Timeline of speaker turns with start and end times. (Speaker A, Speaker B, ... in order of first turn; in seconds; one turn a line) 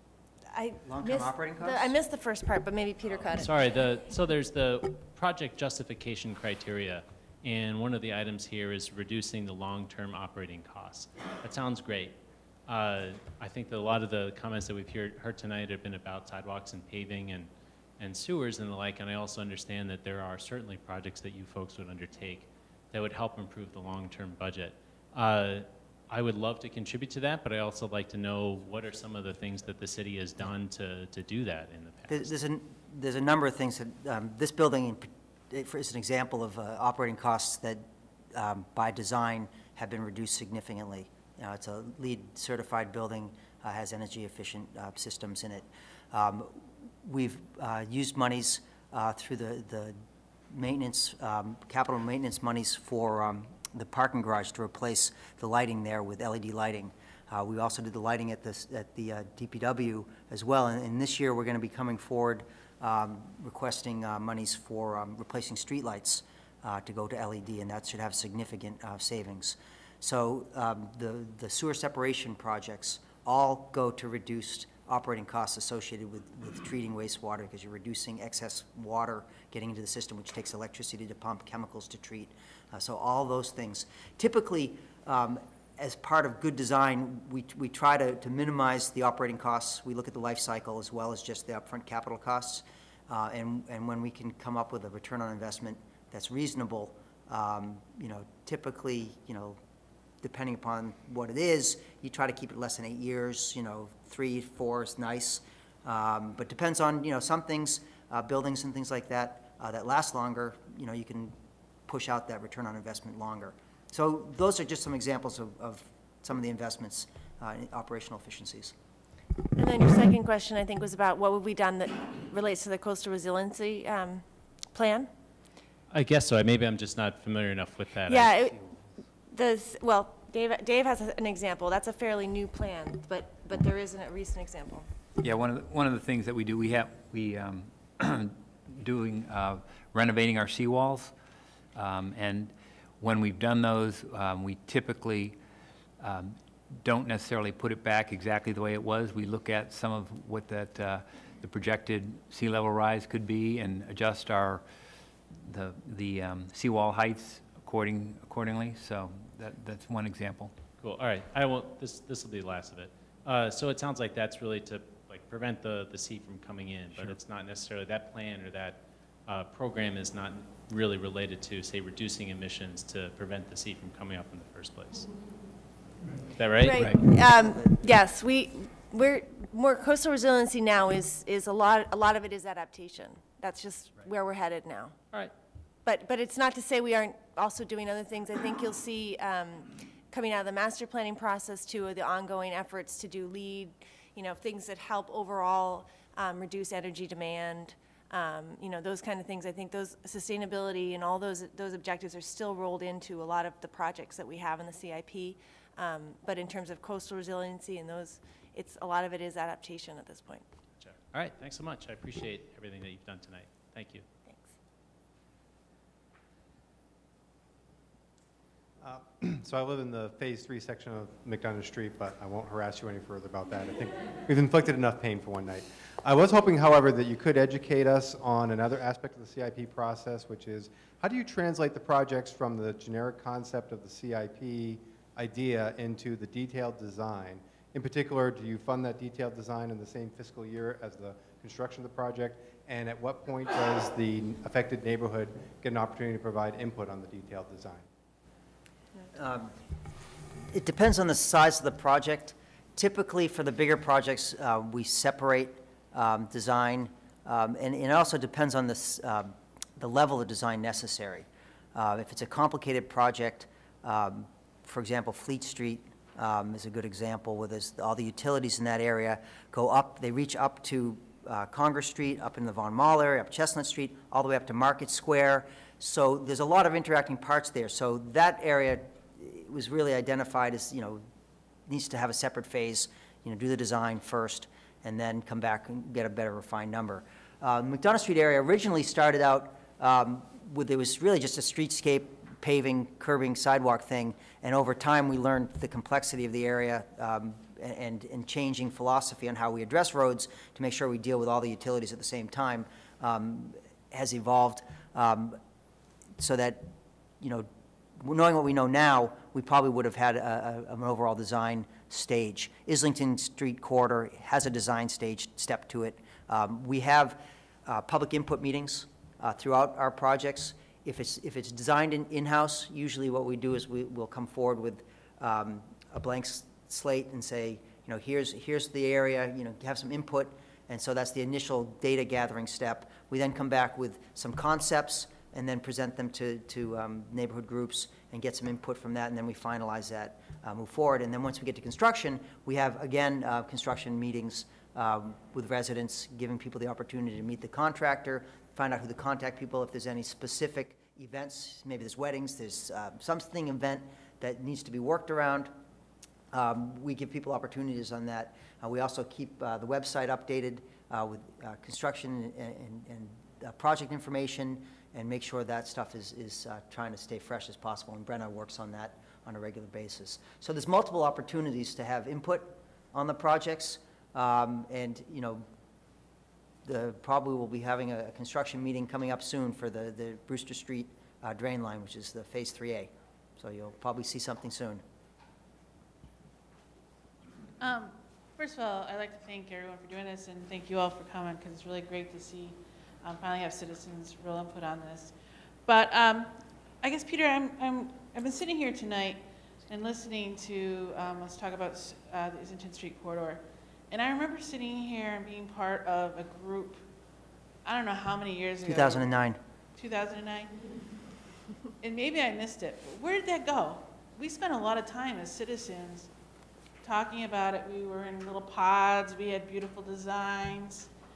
Speaker A: 0.5-3.8
Speaker B: 0.8-1.9
Speaker C: 3.3-32.3
Speaker B: 32.1-50.0
Speaker B: 50.5-99.6
Speaker B: 100.2-111.3
Speaker B: 111.9-118.7
Speaker A: 119.5-125.1
Speaker C: 125.9-128.7
Speaker A: 128.1-128.6
Speaker A: 129.3-134.9
Speaker D: 135.2-141.1
Speaker D: 141.7-145.4
Speaker D: 146.0-154.6
Speaker D: 155.4-160.5
Speaker C: 160.8-175.1
Speaker C: 176.3-177.3
Speaker A: 176.6-184.9
Speaker A: 185.8-210.4
Speaker C: 210.8-214.1
Speaker A: 214.3-214.5
Speaker E: 218.8-247.9
Speaker B: 249.1-249.5
Speaker B: 250.5-281.1
Speaker B: 281.7-305.4
Speaker B: 306.2-307.5
Speaker B: 308.0-355.5
Speaker B: 356.3-375.4
Speaker B: 376.6-384.8
Speaker F: 387.6-406.8
Speaker F: 407.6-409.1
Speaker B: 408.6-409.4
Speaker F: 409.7-410.6
Speaker F: 411.8-416.1
Speaker F: 416.8-420.9